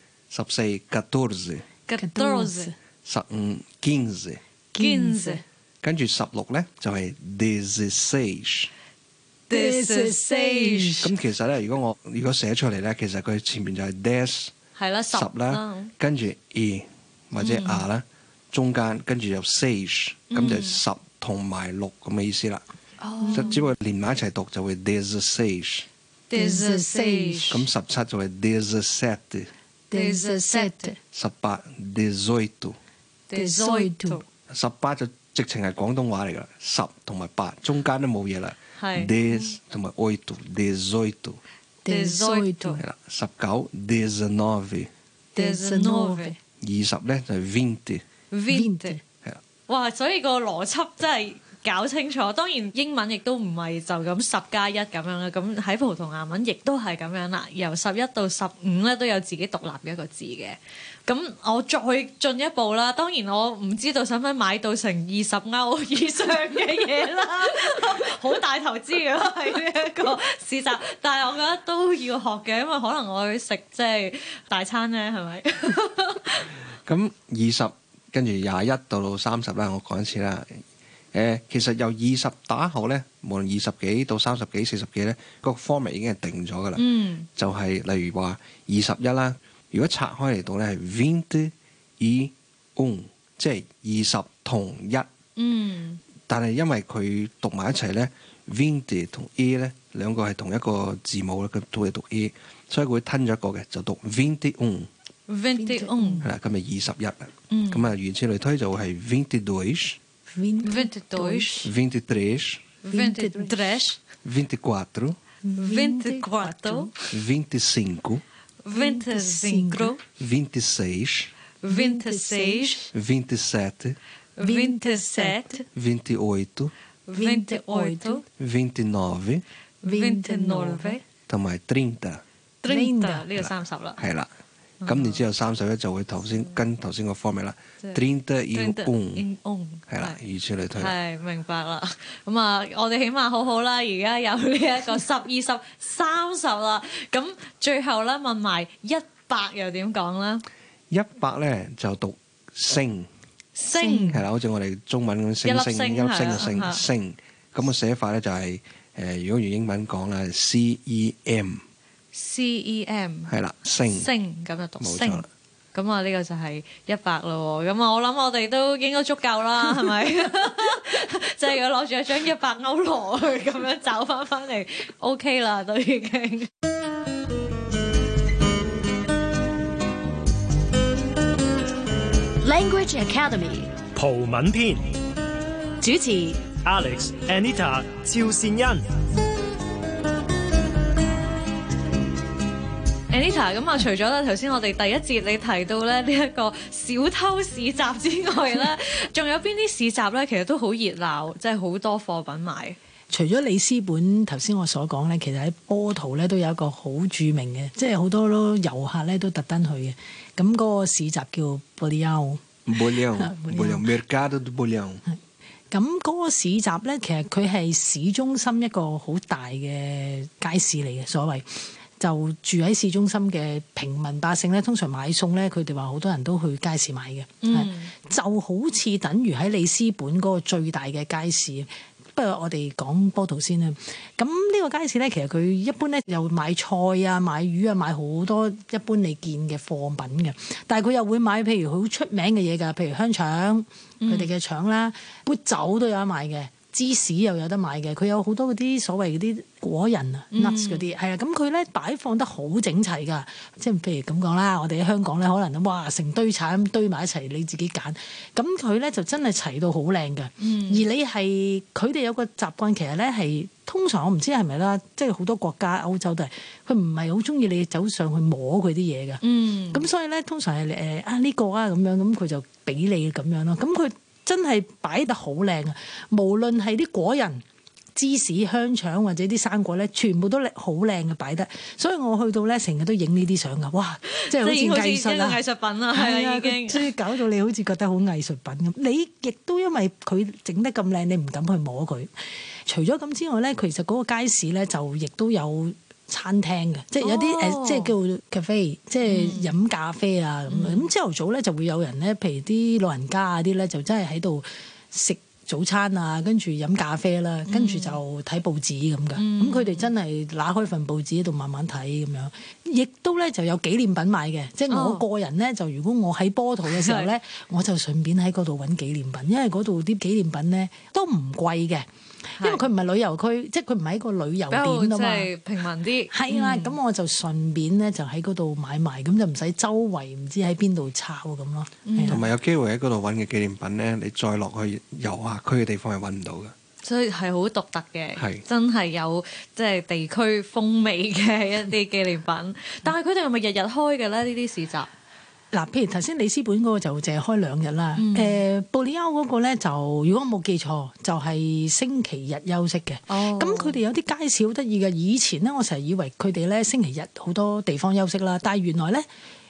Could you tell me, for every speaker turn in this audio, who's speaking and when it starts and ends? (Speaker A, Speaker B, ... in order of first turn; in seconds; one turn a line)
Speaker A: 0.3-1.7
Speaker B: 1.9-2.7
Speaker C: 2.0-2.8
Speaker A: 3.0-4.4
Speaker C: 4.7-5.4
Speaker B: 4.8-5.4
Speaker A: 5.8-8.7
Speaker B: 9.5-11.1
Speaker C: 9.5-11.1
Speaker A: 11.0-14.5
Speaker B: 14.8-15.9
Speaker A: 15.1-22.6
Speaker B: 17.4-17.9
Speaker B: 20.3-20.8
Speaker B: 23.0-23.6
Speaker C: 23.2-23.5
Speaker A: 23.3-25.9
Speaker B: 26.3-27.6
Speaker C: 26.3-27.6
Speaker A: 27.5-29.5
Speaker C: 29.9-31.0
Speaker B: 29.9-30.9
Speaker A: 31.1-32.8
Speaker B: 33.3-34.2
Speaker C: 33.3-34.2
Speaker A: 34.5-41.4
Speaker B: 38.8-39.4
Speaker C: 41.9-42.8
Speaker B: 41.9-42.8
Speaker A: 42.8-44.9
Speaker C: 45.4-46.4
Speaker B: 45.4-46.3
Speaker A: 46.6-48.0
Speaker B: 48.3-49.0
Speaker C: 48.5-49.0
Speaker B: 49.7-76.5
Speaker A: 76.8-80.6
Speaker A: 81.1-86.8
Speaker B: 86.8-87.3
Speaker A: 87.4-95.1
Speaker B: 95.4-96.0
Speaker A: 96.3-104.9
Speaker B: 105.3-106.3
Speaker C: 105.6-106.3
Speaker A: 106.2-110.0
Speaker B: 107.5-107.9
Speaker C: 110.3-111.7
Speaker B: 110.6-111.7
Speaker A: 111.6-112.7
Speaker B: 112.8-114.0
Speaker C: 112.9-113.8
Speaker A: 114.2-115.2
Speaker C: 115.4-116.9
Speaker B: 115.6-117.1
Speaker A: 117.1-118.2
Speaker B: 118.6-120.0
Speaker C: 118.7-120.0
Speaker A: 120.2-121.3
Speaker B: 121.6-122.9
Speaker C: 121.7-122.9
Speaker A: 122.9-124.0
Speaker B: 124.4-125.6
Speaker C: 124.4-125.6
Speaker A: 125.7-126.7
Speaker B: 127.1-128.2
Speaker C: 127.2-128.2
Speaker A: 128.4-129.4
Speaker B: 129.8-131.0
Speaker C: 129.8-131.0
Speaker A: 131.3-132.2
Speaker B: 132.6-134.0
Speaker C: 132.7-133.3
Speaker A: 133.4-134.3
Speaker B: 134.8-135.2
Speaker A: 134.8-139.3
Speaker B: 138.5-140.2
Speaker A: 139.9-141.0
Speaker B: 140.8-150.4
Speaker A: 150.9-153.1
Speaker B: 153.6-154.2
Speaker C: 153.7-154.2
Speaker A: 154.1-161.6
Speaker B: 155.4-156.8
Speaker B: 162.1-163.3
Speaker A: 163.3-164.1
Speaker B: 163.9-176.5
Speaker A: 164.8-165.3
Speaker D: 182.4-183.7
Speaker E: 183.9-184.9
Speaker D: 185.8-186.4
Speaker E: 186.6-188.9
Speaker B: 193.1-202.8
Speaker C: 203.1-213.9
Speaker A: 212.7-215.0
Speaker C: 215.7-277.4
Speaker B: 227.4-227.9
Speaker B: 244.0-244.3
Speaker B: 250.3-250.9
Speaker B: 260.4-260.9
Speaker B: 269.2-269.9
Speaker C: 277.9-285.4
Speaker B: 284.1-286.9
Speaker C: 285.9-292.1
Speaker C: 292.7-325.3
Speaker B: 297.0-297.9
Speaker B: 299.0-299.6
Speaker B: 300.5-300.9
Speaker B: 307.5-308.0
Speaker B: 309.2-309.9
Speaker B: 314.7-315.0
Speaker B: 316.7-317.1
Speaker B: 322.4-322.6
Speaker B: 324.5-326.8
Speaker C: 326.1-332.2
Speaker B: 331.9-332.2
Speaker A: 332.1-336.5
Speaker B: 336.8-344.9
Speaker A: 338.2-338.4
Speaker C: 345.5-359.1
Speaker B: 348.0-348.4
Speaker B: 353.1-353.8